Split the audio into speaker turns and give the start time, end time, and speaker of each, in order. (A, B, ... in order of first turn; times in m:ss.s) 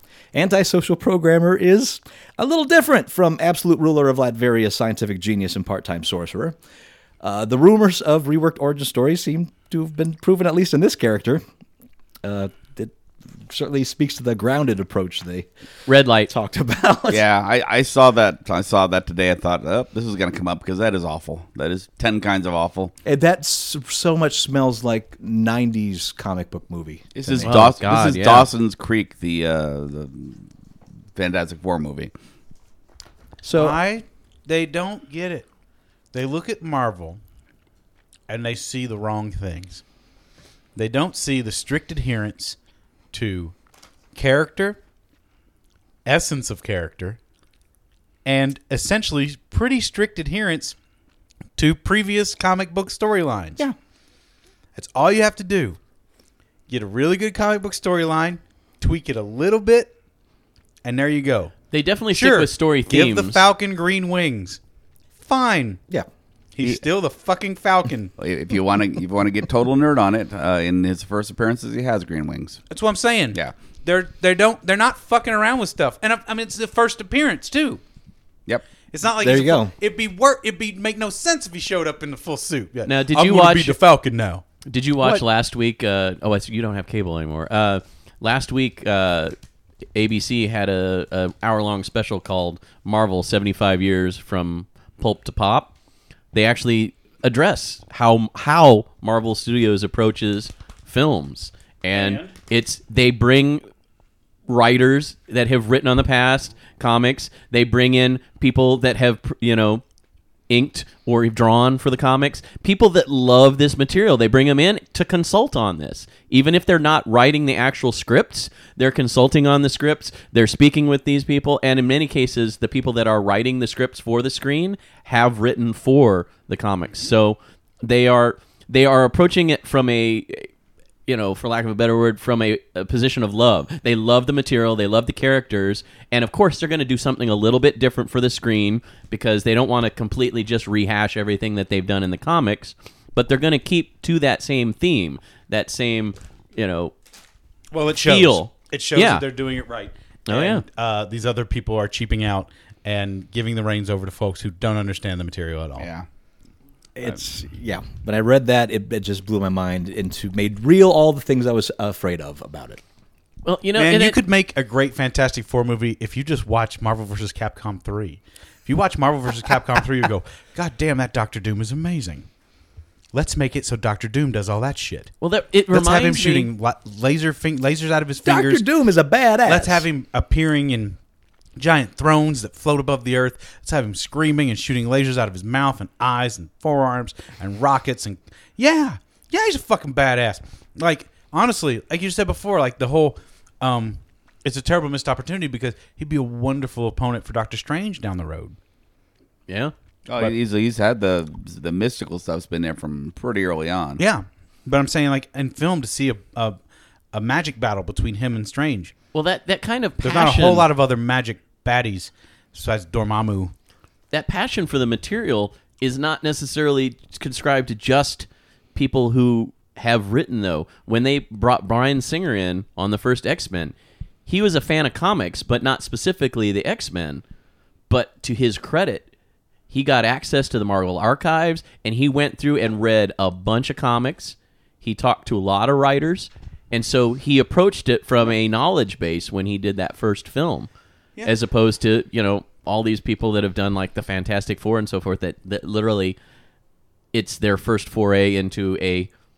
0:00.3-0:06.6 A
0:07.2-0:11.4 A
0:12.2-0:12.9 A
0:13.5-0:15.5 A
0:15.9-0:16.3 B
0:16.3-0:17.2 A
0:17.1-0:22.9 C
0:23.0-0:27.6 A
0:27.2-0:30.5 C
0:27.4-0:28.5 B
0:31.2-0:32.1 C
0:33.4-0:33.8 A
0:33.6-0:35.5 D
0:36.1-0:37.2 D
0:38.3-0:39.8 D
0:40.8-0:42.6 D
0:43.1-0:43.5 D
0:44.2-0:44.8 D
0:46.0-0:47.2 D
0:48.2-0:50.8 D
0:51.6-0:53.6 D
0:54.8-0:55.8 D
0:56.7-0:59.9 D
1:00.8-1:01.5 D
1:01.7-1:03.4 B
1:02.1-1:04.6 D
1:05.2-1:05.8 D
1:06.6-1:08.1 D
1:08.2-1:12.6 C
1:12.7-1:17.8 D
1:18.9-1:24.4 D
1:19.2-1:19.7 A
1:22.9-1:23.8 B
1:24.7-1:29.4 B
1:30.0-1:35.7 B
1:36.3-1:43.6 B
1:41.9-1:42.3 D
1:44.5-1:49.8 B
1:50.5-2:10.5 B
2:11.1-2:26.9 B
2:27.7-2:35.9 D
2:28.0-2:29.2 B
2:30.3-2:30.6 B
2:35.8-2:36.1 C
2:37.0-2:42.8 A
2:43.4-2:44.2 B
2:43.8-2:52.3 D
2:53.1-2:55.1 D
2:55.2-2:56.5 B
2:55.7-2:58.6 D
2:58.2-2:59.8 A
2:59.4-3:01.0 D
3:01.6-3:18.6 D
3:19.5-3:19.7 B
3:20.1-3:24.0 C
3:24.0-3:26.6 D
3:27.1-3:28.9 D
3:29.1-3:30.7 B
3:30.0-3:33.5 D
3:34.1-3:43.7 B
3:44.3-3:47.2 B
3:47.9-3:49.1 B
3:49.7-4:00.7 B
4:01.2-4:06.2 B
4:07.1-4:09.1 B